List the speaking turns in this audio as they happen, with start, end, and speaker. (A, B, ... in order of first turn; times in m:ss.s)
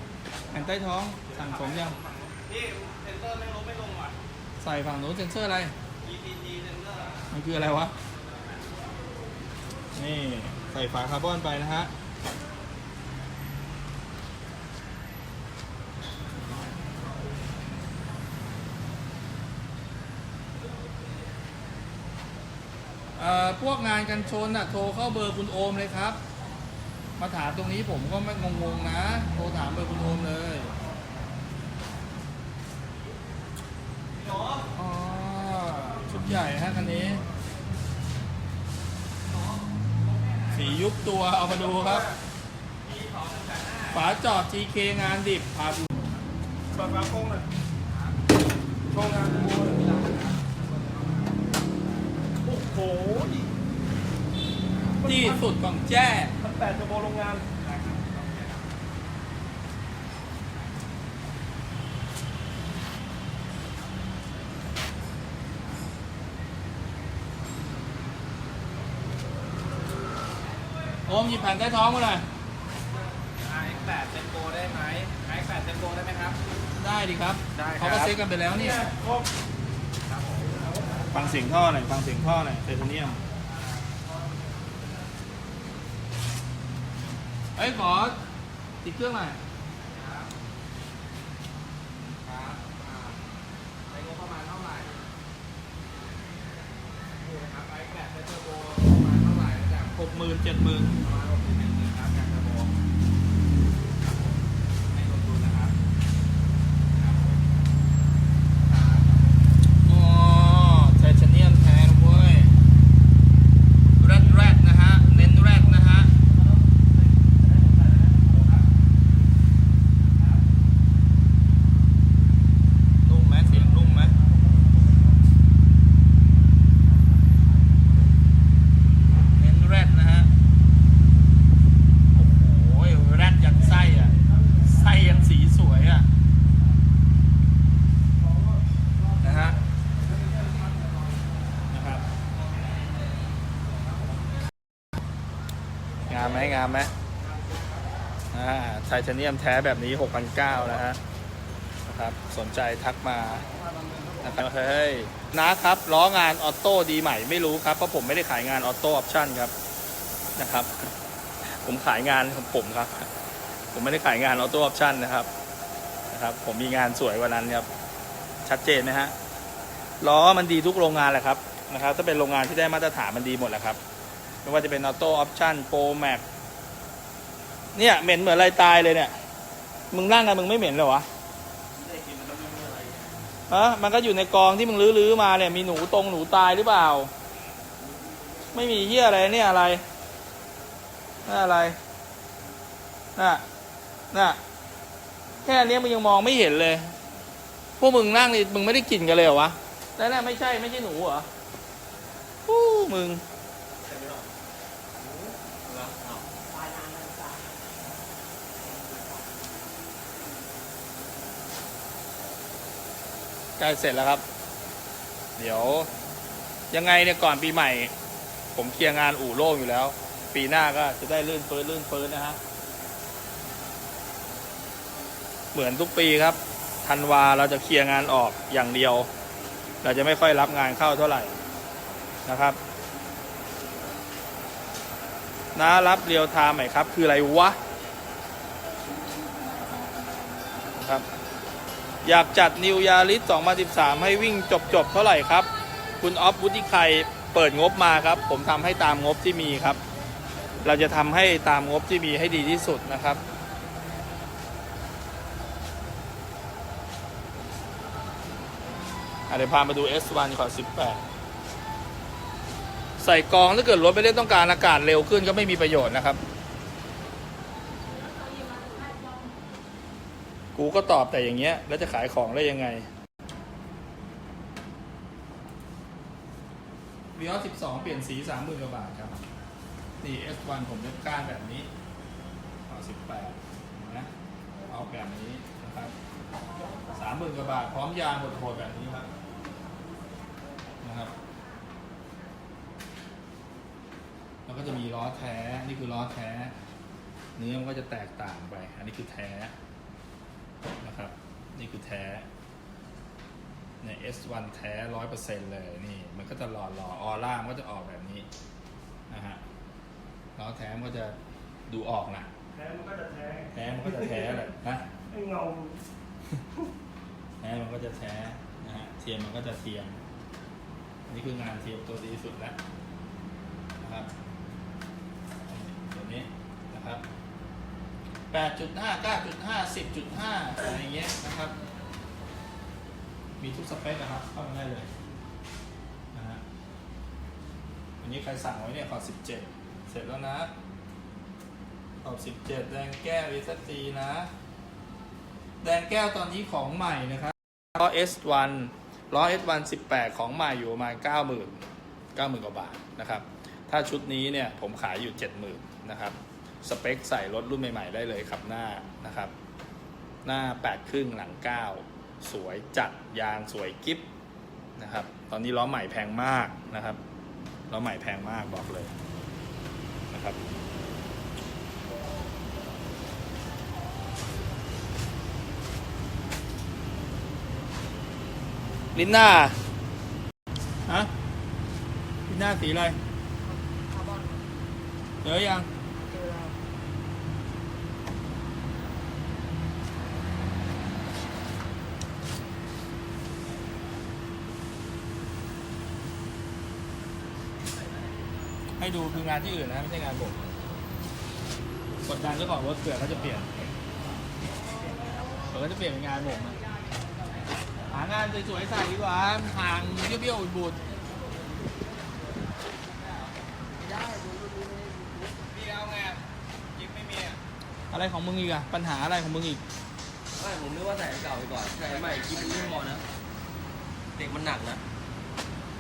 0:00.5-0:02.0 A
0:01.3-0:04.2 B
0:04.6-0:05.7 A
0:06.0-0:07.2 B
0:07.3-0:07.9 A
0:10.0-0:11.9 A
0:23.2-0:26.2 A
0:27.2-0:30.7 A
0:34.7-0:37.2 A
0:40.5-0:42.1 A
0:43.0-0:44.0 B
0:43.9-0:45.9 A
0:46.8-0:47.4 C
0:47.9-0:48.2 B
0:48.9-0:49.8 C
0:49.0-0:52.1 B
0:52.4-0:53.5 C
0:54.8-0:55.1 B
0:55.0-0:56.4 A
0:55.0-0:55.4 C
0:56.4-0:57.4 C
0:57.6-0:58.6 B
1:11.1-1:12.2 A
1:13.4-1:16.4 B
1:16.8-1:18.9 A
1:17.6-1:18.1 B
1:20.0-1:21.2 B
1:21.1-1:23.2 A
1:23.5-1:24.3 B
1:27.6-1:28.2 A
1:28.8-1:29.4 A
1:29.8-1:30.3 B
1:32.2-1:33.2 B
1:33.9-1:35.0 B
1:37.2-1:40.0 B
1:39.9-1:41.0 A
1:41.0-1:42.7 B
1:44.9-1:45.8 B
1:46.9-1:47.4 B
1:48.6-1:49.5 B
1:49.8-1:52.5 A
1:54.0-1:56.1 A
1:54.0-1:55.6 B
1:57.6-1:58.7 B
2:03.0-2:04.2 A
2:09.4-2:10.3 A
2:12.1-2:16.1 A
2:19.2-2:19.6 A
2:21.7-2:22.1 A
2:26.1-2:26.9 A
2:28.3-2:31.0 A
2:31.8-2:33.5 A
2:33.8-2:34.2 C
2:34.2-2:39.5 A
2:40.4-2:40.9 A
2:41.5-2:43.1 A
2:43.7-2:45.3 A
2:46.1-2:47.7 A
2:48.4-2:49.2 A
2:50.0-2:53.8 A
2:54.4-2:56.2 A
2:57.8-2:59.1 A
2:59.9-3:01.1 A
3:01.8-3:03.1 D
3:03.5-3:07.1 A
3:08.5-3:09.8 A
3:11.2-3:11.8 A
3:13.2-3:13.4 A
3:14.1-3:14.4 A
3:15.4-3:17.0 A
3:17.8-3:21.3 A
3:22.5-3:23.2 A
3:23.9-3:24.2 D
3:25.0-3:26.3 D
3:26.5-3:27.4 E
3:33.6-3:34.2 A
3:35.4-3:35.9 A
3:36.7-3:37.9 A
3:38.6-3:42.4 A
3:45.5-3:49.1 A
3:49.8-3:51.4 A
3:52.3-3:52.6 A
3:55.6-3:57.6 A
4:00.7-4:01.0 A
4:02.0-4:05.5 A
4:06.0-4:09.8 A
4:10.6-4:13.2 A
4:19.3-4:21.0 A
4:23.0-4:26.2 A
4:28.0-4:29.4 E
4:30.6-4:32.9 A
4:37.2-4:39.2 A
4:40.0-4:41.7 A
4:42.7-4:44.1 A
4:44.7-4:46.0 A
4:46.9-4:49.1 A
4:50.8-4:51.1 A
4:54.5-4:56.5 A
4:57.4-4:59.5 A
5:00.8-5:02.3 A
5:03.8-5:08.3 A
5:09.1-5:09.4 A
5:10.4-5:11.2 A
5:11.7-5:12.3 A
5:12.6-5:13.5 C
5:13.5-5:14.9 A
5:15.1-5:15.8 C
5:17.4-5:20.0 A
5:21.1-5:22.6 A
5:23.8-5:24.1 A
5:25.5-5:27.0 A
5:28.3-5:31.5 A
5:33.4-5:34.9 A
5:36.1-5:36.4 A
5:38.0-5:40.5 A
5:42.0-5:44.3 A
5:45.6-5:51.6 A
5:52.2-5:59.3 A
6:00.2-6:04.1 A
6:04.8-6:07.0 A
6:07.7-6:08.9 A
6:10.1-6:10.4 A
6:19.0-6:19.6 A
6:22.3-6:23.0 A
6:23.5-6:24.5 E
6:25.2-6:25.7 A
6:26.0-6:26.6 E
6:38.8-6:40.4 A
6:42.0-6:43.5 A
6:45.4-6:46.6 A
6:47.9-6:50.8 A
6:53.9-6:55.2 D
6:55.4-6:56.2 B
6:56.7-6:57.4 B
6:57.9-6:59.6 A
7:00.4-7:03.0 D
7:01.8-7:02.8 B
7:04.2-7:04.8 D